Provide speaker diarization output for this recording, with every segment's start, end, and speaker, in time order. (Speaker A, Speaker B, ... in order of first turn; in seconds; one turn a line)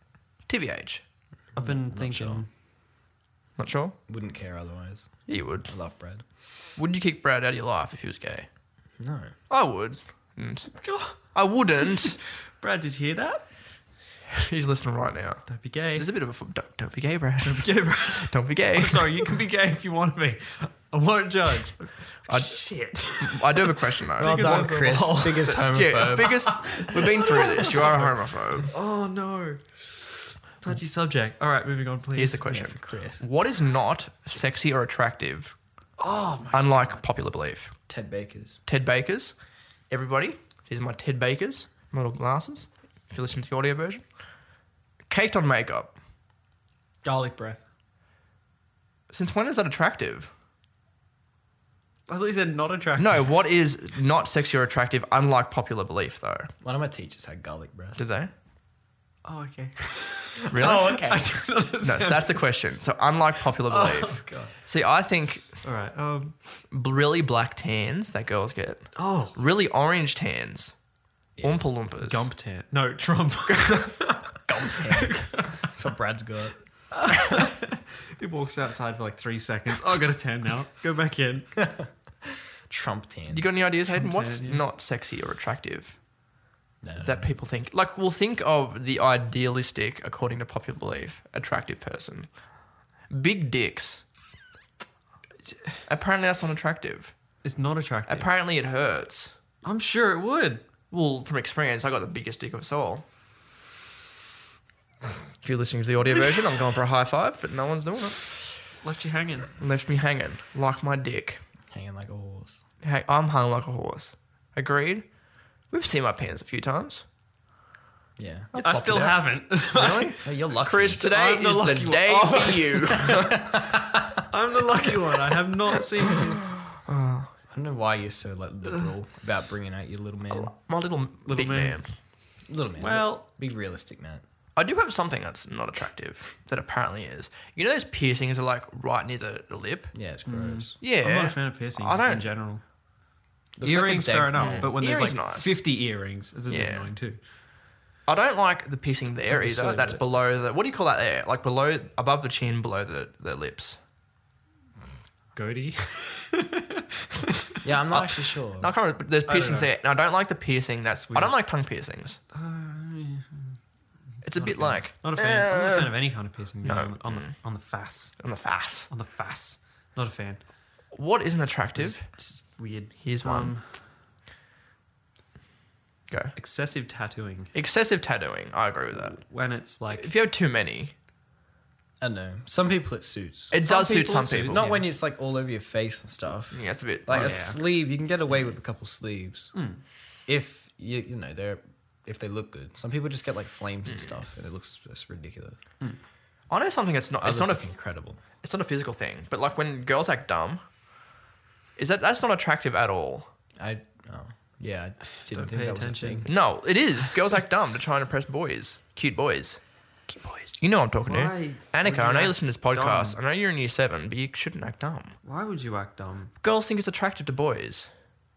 Speaker A: 0.5-1.0
Speaker B: 1.5-2.4
Speaker C: 1.6-2.5
Speaker A: 3.6-4.0
Speaker B: 4.1-6.2
Speaker A: 5.3-5.7
Speaker A: 6.8-8.5
Speaker B: 9.0-9.3
Speaker A: 9.5-12.2
Speaker C: 10.8-11.3
Speaker C: 12.1-13.5
Speaker A: 14.3-19.3
Speaker C: 15.5-16.1
Speaker C: 17.4-32.4
Speaker A: 22.3-24.9
Speaker B: 24.2-26.6
Speaker A: 25.6-28.7
Speaker A: 32.1-35.5
Speaker B: 32.5-33.3
Speaker C: 36.0-37.0
Speaker A: 36.5-37.8
Speaker B: 37.9-38.6
Speaker A: 38.7-39.3
Speaker A: 39.9-44.0
Speaker A: 45.1-45.9
Speaker C: 47.0-47.6
Speaker A: 49.1-50.3
Speaker C: 52.1-53.4
Speaker A: 53.0-56.5
Speaker B: 56.6-58.0
Speaker A: 58.0-58.3
Speaker C: 59.2-62.4
Speaker A: 60.5-61.0
Speaker B: 60.6-61.2
Speaker A: 61.8-65.6
Speaker C: 63.7-64.5
Speaker C: 65.6-66.3
Speaker A: 66.7-70.8
Speaker C: 69.0-69.4
Speaker B: 71.4-71.7
Speaker A: 71.4-72.3
Speaker C: 72.0-75.7
Speaker A: 73.6-73.8
Speaker B: 74.5-76.6
Speaker C: 76.9-81.6
Speaker B: 81.6-83.5
Speaker A: 83.3-86.0
Speaker C: 83.9-84.6
Speaker B: 86.8-87.3
Speaker A: 87.0-92.3
Speaker A: 93.1-94.0
Speaker A: 95.8-97.1
Speaker C: 97.4-98.3
Speaker A: 98.1-99.4
Speaker C: 99.6-100.7
Speaker A: 100.9-103.0
Speaker A: 105.4-108.7
Speaker C: 108.8-109.5
Speaker A: 109.6-111.4
Speaker B: 111.7-112.6
Speaker A: 112.8-115.1
Speaker A: 115.7-117.0
Speaker B: 118.2-118.5
Speaker A: 118.5-123.6
Speaker C: 118.6-120.3
Speaker B: 120.2-121.1
Speaker C: 120.9-123.3
Speaker B: 123.2-124.1
Speaker C: 124.3-126.5
Speaker A: 126.7-127.3
Speaker B: 127.5-130.5
Speaker A: 130.3-131.9
Speaker C: 131.3-131.9
Speaker B: 132.5-134.2
Speaker C: 132.8-133.2
Speaker A: 134.6-139.9
Speaker B: 139.9-140.8
Speaker C: 140.2-142.6
Speaker A: 140.8-142.3
Speaker B: 143.6-144.7
Speaker C: 143.6-147.2
Speaker A: 144.4-145.6
Speaker A: 146.5-146.9
Speaker A: 148.1-153.8
Speaker C: 149.3-150.0
Speaker C: 155.3-157.5
Speaker B: 157.6-158.7
Speaker A: 157.9-162.2
Speaker C: 159.3-159.7
Speaker C: 161.1-161.4
Speaker C: 162.3-163.6
Speaker A: 164.2-165.9
Speaker C: 164.4-168.2
Speaker A: 166.6-167.3
Speaker A: 168.2-168.9
Speaker C: 168.9-170.4
Speaker A: 170.9-172.1
Speaker C: 172.1-173.7
Speaker A: 173.0-173.5
Speaker A: 176.1-176.3
Speaker C: 176.3-177.5
Speaker A: 177.5-179.2
Speaker C: 178.9-180.1
Speaker A: 179.9-180.9
Speaker B: 182.0-183.6
Speaker A: 183.5-184.7
Speaker C: 183.6-184.8
Speaker B: 184.5-189.5
Speaker A: 186.5-187.4
Speaker C: 187.1-187.6
Speaker C: 189.5-189.8
Speaker B: 190.3-195.6
Speaker A: 196.5-197.7
Speaker B: 197.2-198.2
Speaker A: 198.4-200.6
Speaker A: 201.8-203.3
Speaker B: 203.6-206.3
Speaker C: 205.3-206.3
Speaker A: 206.2-209.6
Speaker A: 210.2-215.2
Speaker C: 211.1-213.2
Speaker C: 215.2-216.3
Speaker A: 216.4-217.9